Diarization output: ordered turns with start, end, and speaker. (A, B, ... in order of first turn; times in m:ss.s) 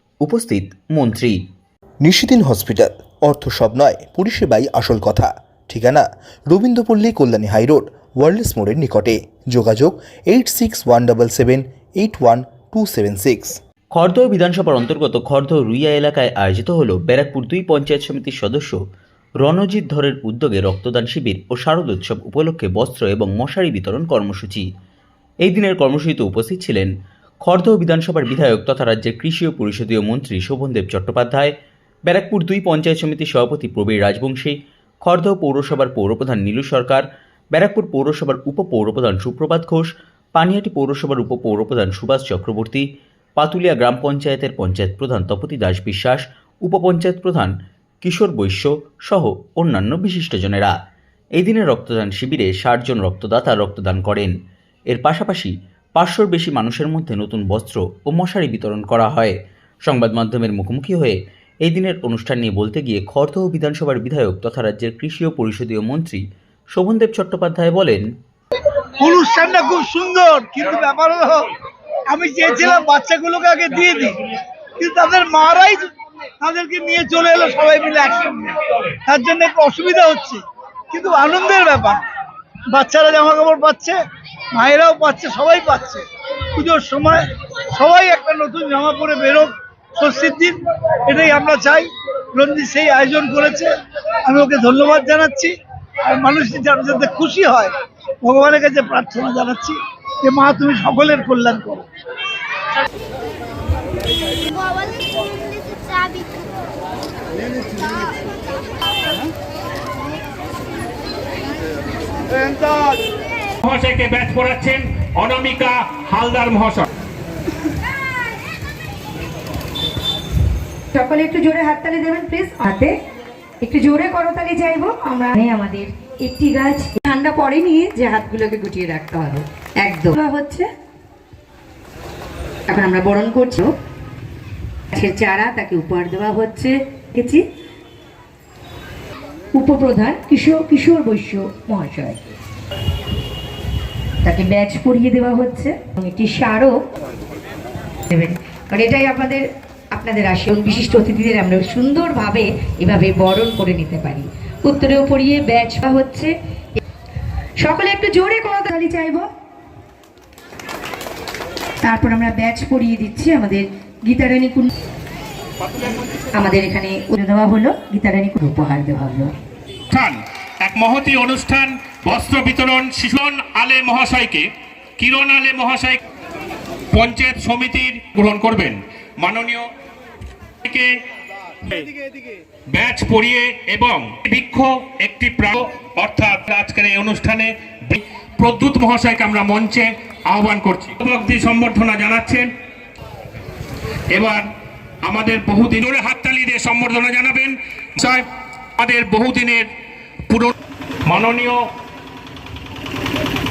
0:00.3-0:01.3 A
0:02.0-0:13.6 B
0:14.0-0:18.7 A
0:19.5-0:24.6 A
0:25.5-0:26.8 A
0:27.5-0:31.4 A
0:32.1-0:34.5 A
0:35.1-0:37.0 A
0:37.6-0:39.8 A
0:40.4-0:42.8 A
0:43.4-0:47.5 A
0:48.0-0:50.7 A
0:51.4-0:54.2 A
0:54.9-0:55.4 A
0:56.0-0:59.3 A
0:59.9-1:01.1 A
1:01.6-1:06.1 A
1:06.8-1:08.0 A
1:09.0-1:11.5 C
1:12.1-1:14.2 C
1:14.8-1:15.9 C
1:16.4-1:22.0 C
1:22.7-1:24.0 C
1:24.5-1:33.7 C
1:34.2-1:35.5 C
1:36.0-1:41.8 C
1:53.6-1:56.9 D
2:00.9-2:02.9 E
2:03.6-2:10.6 E
2:12.7-2:13.7 E
2:14.9-2:17.4 E
2:19.6-2:22.2 E
2:24.2-2:26.7 E
2:28.1-2:36.3 E
2:37.6-2:39.2 E
2:41.8-2:44.7 E
2:45.7-2:46.0 D
2:46.3-2:49.3 E
2:49.9-2:54.5 D
2:55.0-2:56.0 D
2:56.9-2:59.6 D
3:01.6-3:01.9 D
3:02.7-3:12.5 D
3:14.1-3:14.4 D
3:15.0-3:18.2 D
3:18.8-3:19.7 D
3:21.0-3:21.6 D